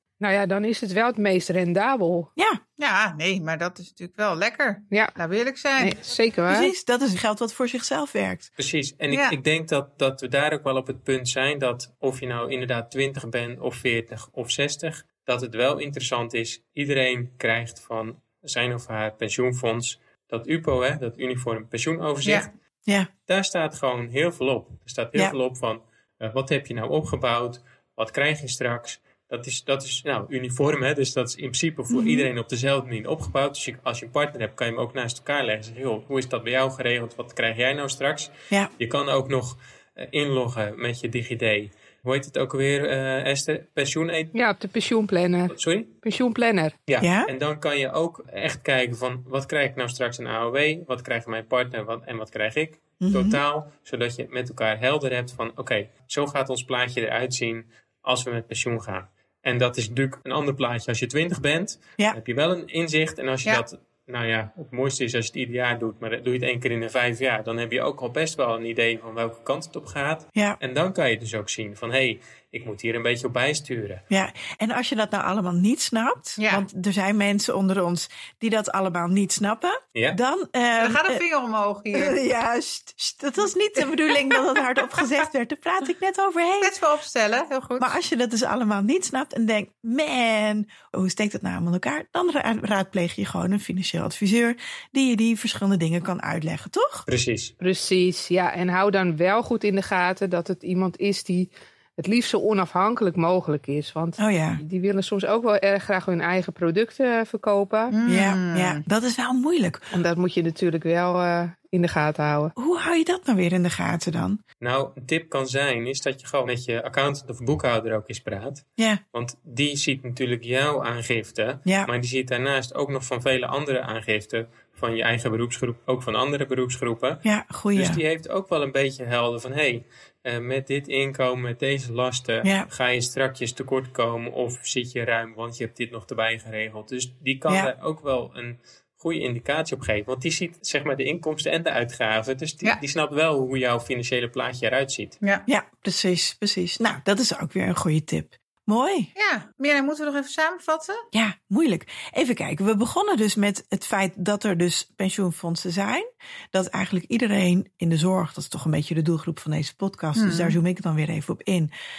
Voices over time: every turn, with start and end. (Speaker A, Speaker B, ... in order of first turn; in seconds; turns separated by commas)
Speaker A: 0.2-2.3, Speaker B: 2.8-6.0, Speaker A: 5.8-6.7, Speaker C: 6.5-8.5, Speaker D: 8.6-22.5, Speaker B: 9.1-9.4, Speaker D: 23.3-44.3, Speaker C: 31.9-32.3, Speaker A: 44.3-46.7, Speaker D: 45.5-46.0, Speaker D: 46.9-74.0, Speaker C: 47.0-47.3, Speaker C: 53.0-53.4, Speaker C: 74.1-81.2, Speaker B: 76.4-76.7, Speaker B: 80.8-82.2, Speaker C: 81.9-86.7, Speaker B: 84.1-85.0, Speaker B: 86.6-88.0, Speaker C: 87.8-97.0, Speaker D: 97.1-97.5, Speaker A: 97.6-108.0, Speaker C: 104.2-104.6, Speaker B: 107.9-108.8, Speaker C: 108.1-109.9, Speaker A: 109.9-112.5, Speaker C: 112.6-114.4, Speaker D: 114.6-145.2, Speaker C: 127.2-128.0, Speaker C: 137.5-137.7, Speaker C: 145.5-149.1, Speaker B: 149.2-151.0, Speaker C: 151.1-161.7, Speaker B: 160.2-160.6